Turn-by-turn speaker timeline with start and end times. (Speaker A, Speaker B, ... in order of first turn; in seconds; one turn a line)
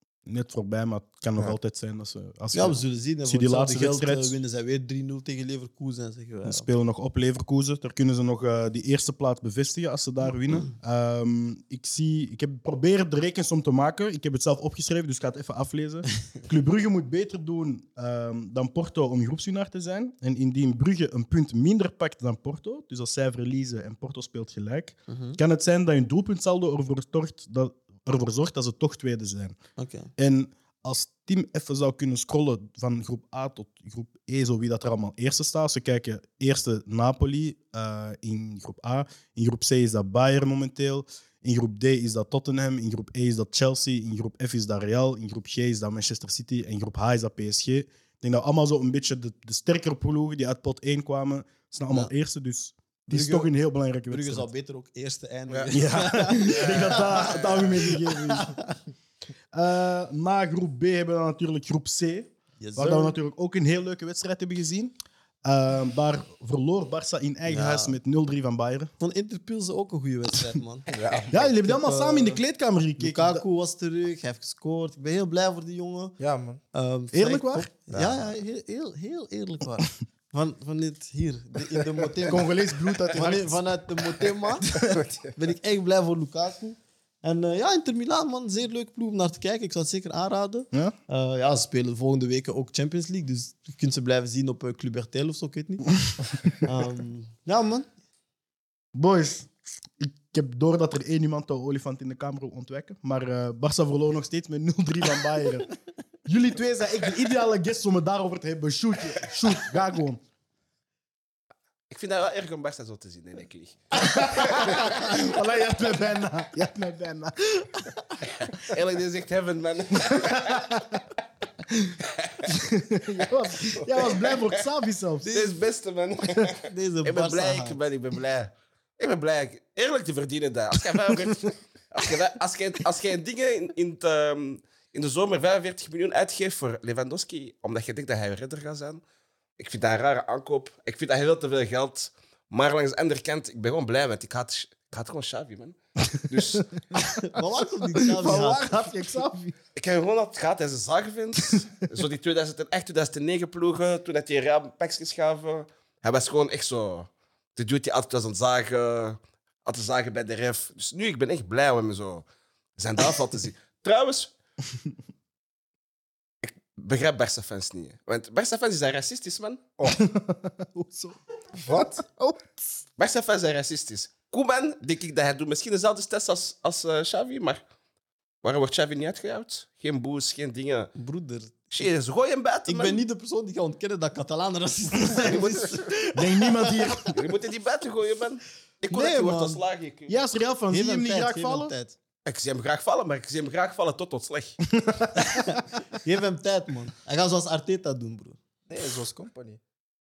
Speaker A: 0.2-4.3
Speaker B: 2.5-6.7
Speaker A: 6.5-29.6
Speaker B: 25.1-25.4
Speaker B: 29.8-30.1
Speaker A: 30.2-54.5
Speaker B: 53.1-53.5
Speaker B: 54.1-58.8
Speaker A: 55.7-58.7
Speaker C: 56.5-57.6
Speaker A: 59.5-68.9
Speaker B: 62.6-63.2
Speaker B: 67.5-68.0
Speaker B: 69.0-70.9
Speaker D: 70.9-71.5
Speaker A: 71.3-73.4
Speaker B: 71.6-72.4
Speaker B: 73.0-76.2
Speaker D: 76.2-76.6
Speaker B: 76.7-82.5
Speaker A: 77.1-77.7
Speaker D: 77.9-78.3
Speaker A: 82.3-83.6
Speaker B: 83.1-84.8
Speaker D: 84.7-85.3
Speaker B: 85.3-95.8
Speaker B: 96.6-97.9
Speaker A: 98.9-105.7
Speaker A: 106.2-110.2
Speaker C: 111.9-115.2
Speaker A: 114.0-118.0
Speaker C: 118.2-120.6
Speaker A: 120.0-121.1
Speaker A: 121.7-125.3
Speaker C: 123.6-124.6
Speaker B: 125.2-125.5
Speaker C: 125.3-139.0
Speaker B: 126.6-127.8
Speaker A: 131.1-131.4
Speaker C: 139.6-146.8
Speaker B: 146.9-149.2
Speaker A: 148.1-149.5
Speaker C: 149.7-162.2
Speaker C: 162.8-164.3
Speaker C: 166.4-169.6
Speaker A: 169.9-171.2
Speaker D: 171.5-172.2
Speaker C: 173.0-177.6
Speaker C: 178.4-180.9
Speaker B: 180.9-181.5
Speaker C: 181.7-183.0
Speaker B: 182.7-187.1
Speaker C: 185.2-185.9
Speaker A: 186.1-187.1
Speaker C: 187.1-190.2
Speaker B: 188.9-189.6
Speaker A: 190.1-191.7
Speaker B: 190.7-191.9
Speaker C: 192.2-194.6
Speaker A: 194.7-195.5
Speaker B: 195.2-198.4
Speaker D: 198.7-199.6